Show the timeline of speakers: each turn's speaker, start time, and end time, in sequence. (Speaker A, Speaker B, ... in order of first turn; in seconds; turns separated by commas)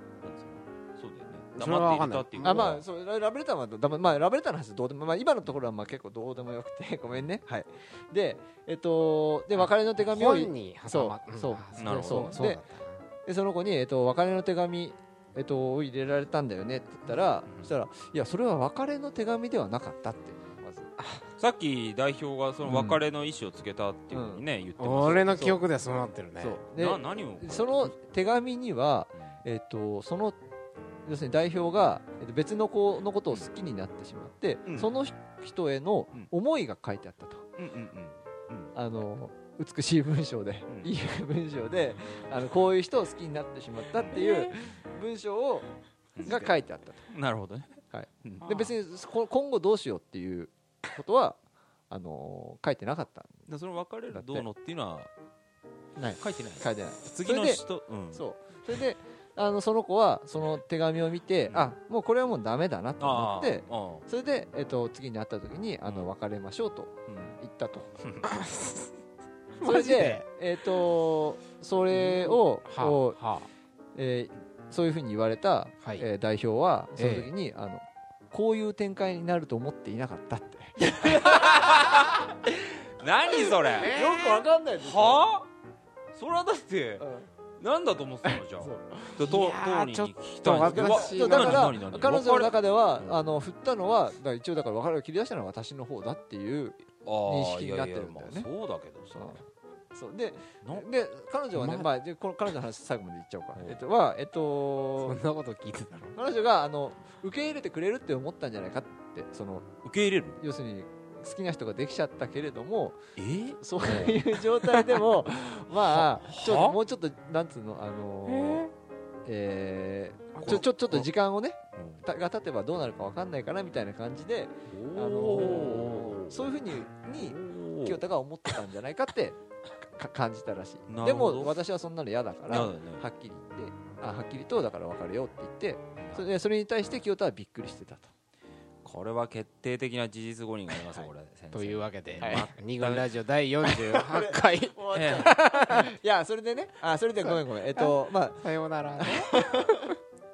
Speaker A: 0.2-2.8, Speaker B: 1.5-2.8, Speaker C: 2.4-12.6, Speaker B: 9.6-13.0, Speaker A: 11.8-12.4, Speaker C: 13.2-20.9, Speaker A: 17.5-17.7, Speaker B: 21.0-21.2, Speaker A: 21.4-25.4, Speaker C: 22.6-23.0, Speaker C: 24.1-24.4, Speaker B: 24.8-26.6, Speaker C: 25.1-25.6, Speaker C: 26.4-30.4, Speaker A: 26.8-27.9, Speaker C: 31.1-37.5, Speaker A: 34.7-34.9, Speaker A: 37.6-38.7, Speaker C: 38.8-45.7, Speaker A: 44.0-44.6, Speaker A: 46.2-46.5, Speaker C: 46.2-47.1, Speaker B: 46.2-46.5, Speaker A: 47.1-48.8, Speaker C: 47.9-51.4, Speaker C: 51.9-53.5, Speaker A: 53.5-55.1, Speaker C: 54.1-54.5, Speaker C: 56.0-67.9, Speaker A: 56.2-58.2, Speaker A: 61.5-61.7, Speaker A: 63.0-64.0, Speaker A: 67.1-67.4, Speaker B: 68.2-68.9, Speaker B: 69.6-70.2, Speaker C: 69.6-73.2, Speaker B: 71.9-73.5, Speaker C: 74.0-81.6, Speaker B: 77.0-77.3, Speaker A: 81.0-84.0, Speaker C: 83.7-85.2, Speaker B: 83.8-84.5, Speaker A: 84.8-85.5, Speaker A: 86.1-87.1, Speaker C: 87.0-87.3, Speaker A: 87.6-93.3, Speaker C: 88.2-89.2, Speaker B: 89.2-91.8, Speaker C: 90.5-98.5, Speaker A: 97.0-99.5, Speaker C: 99.1-99.4, Speaker C: 99.9-105.2, Speaker B: 101.6-101.8, Speaker B: 105.0-106.2, Speaker C: 106.2-109.7, Speaker A: 109.8-110.4, Speaker C: 110.4-118.7, Speaker A: 113.2-115.0, Speaker A: 115.9-116.8, Speaker C: 119.2-138.1, Speaker A: 120.4-121.1, Speaker A: 121.8-122.0, Speaker A: 124.7-128.0, Speaker A: 130.9-131.6, Speaker A: 132.5-133.0, Speaker A: 136.0-136.2, Speaker A: 138.8-143.2, Speaker C: 140.7-141.1, Speaker B: 141.5-145.9, Speaker C: 142.2-142.5, Speaker C: 143.8-148.5, Speaker A: 144.9-145.3, Speaker B: 147.2-149.9, Speaker C: 149.0-149.8